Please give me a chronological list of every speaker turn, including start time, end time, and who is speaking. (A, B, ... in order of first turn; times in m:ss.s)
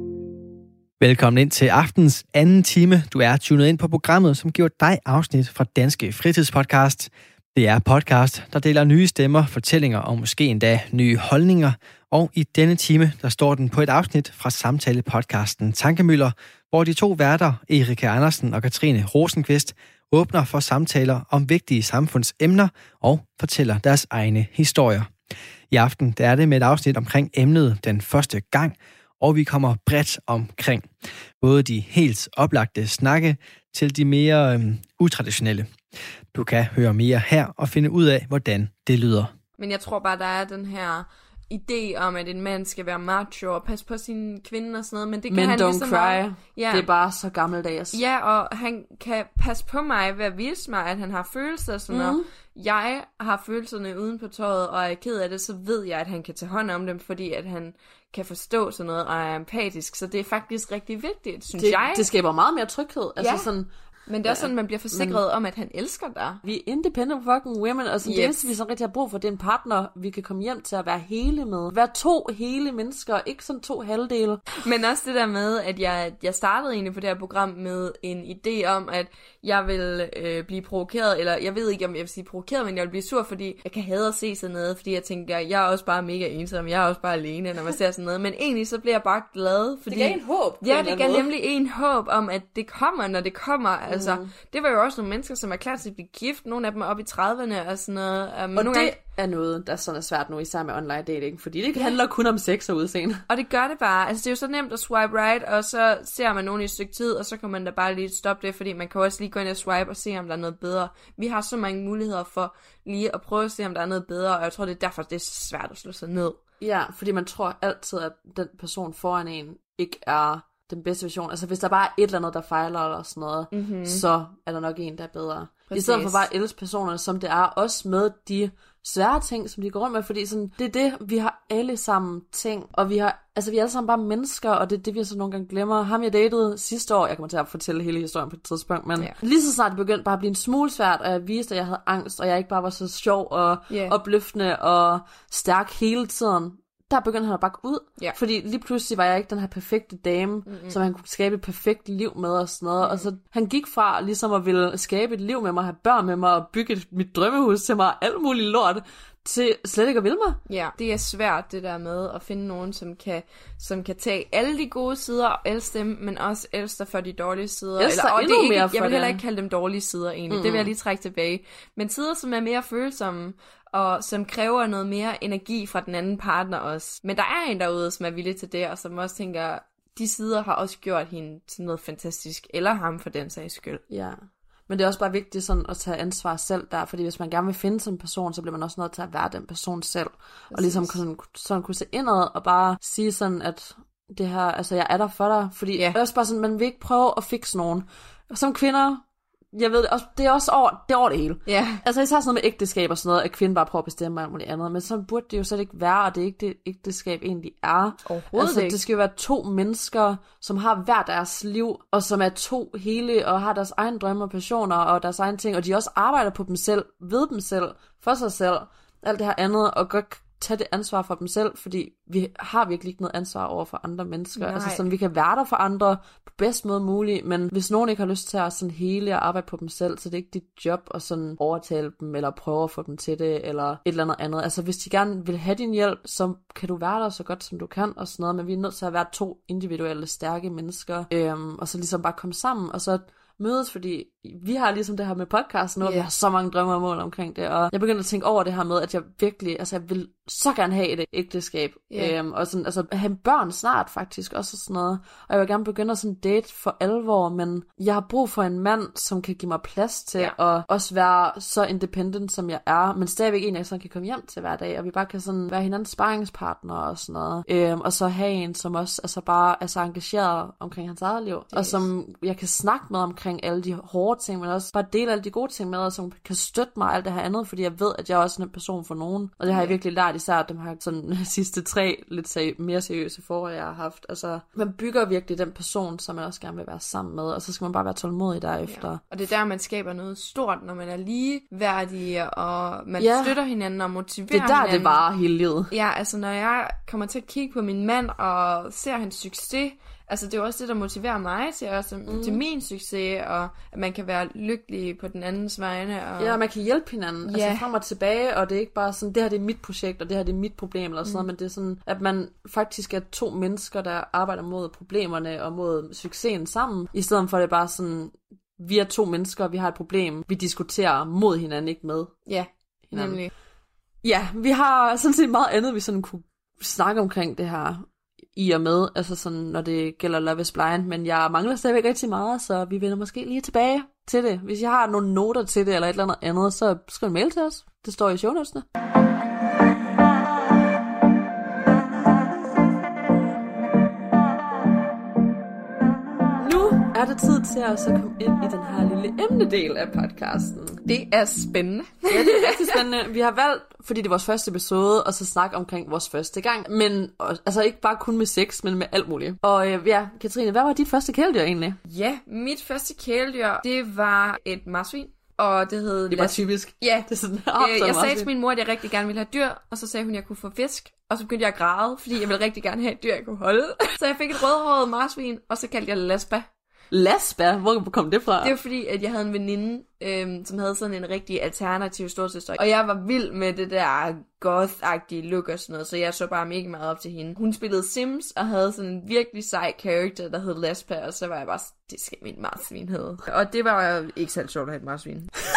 0:01.0-0:25.1 A
0:25.7-0:30.9 A
0:31.4-0:35.7 A
0:36.3-0:39.3 A
0:39.6-0:46.9 B
0:45.3-0:48.0 C
0:47.9-1:02.1 B
0:51.9-0:52.2 C
1:01.6-1:03.7 C
1:03.2-1:03.5 B
1:04.1-1:06.4 B
1:04.3-1:05.2 C
1:06.4-1:14.4 C
1:08.0-1:08.4 B
1:14.6-1:39.0 B
1:29.9-1:31.3 C
1:33.9-1:34.3 C
1:38.6-1:43.3 C
1:43.3-1:56.4 B
1:56.6-2:40.4 C
2:03.5-2:04.0 B
2:05.7-2:06.2 B
2:30.5-2:30.8 B
2:40.5-3:03.8 B
2:47.8-2:49.2 C
2:50.3-2:50.7 C
3:03.9-4:49.0 C
3:10.5-3:11.0 B
3:21.5-3:21.8 B
3:28.0-3:28.8 B
3:44.4-3:44.8 B
4:05.8-4:06.1 B
4:31.5-4:31.8 B
4:39.5-4:39.8 B
4:48.7-4:55.0 B
4:53.0-4:53.4 C
4:54.3-4:55.7 C
4:55.7-5:06.4 B
5:02.1-5:02.4 C
5:06.2-5:22.2 C
5:07.2-5:07.7 B
5:22.3-5:23.3 B
5:22.9-5:23.2 C
5:24.0-5:38.6 C
5:46.4-5:50.8 C
5:50.9-5:52.8 B
5:52.1-6:01.8 C
6:01.9-6:07.1 B
6:06.1-6:08.3 C
6:07.6-6:16.5 B
6:16.9-6:18.6 C
6:18.4-6:35.3 B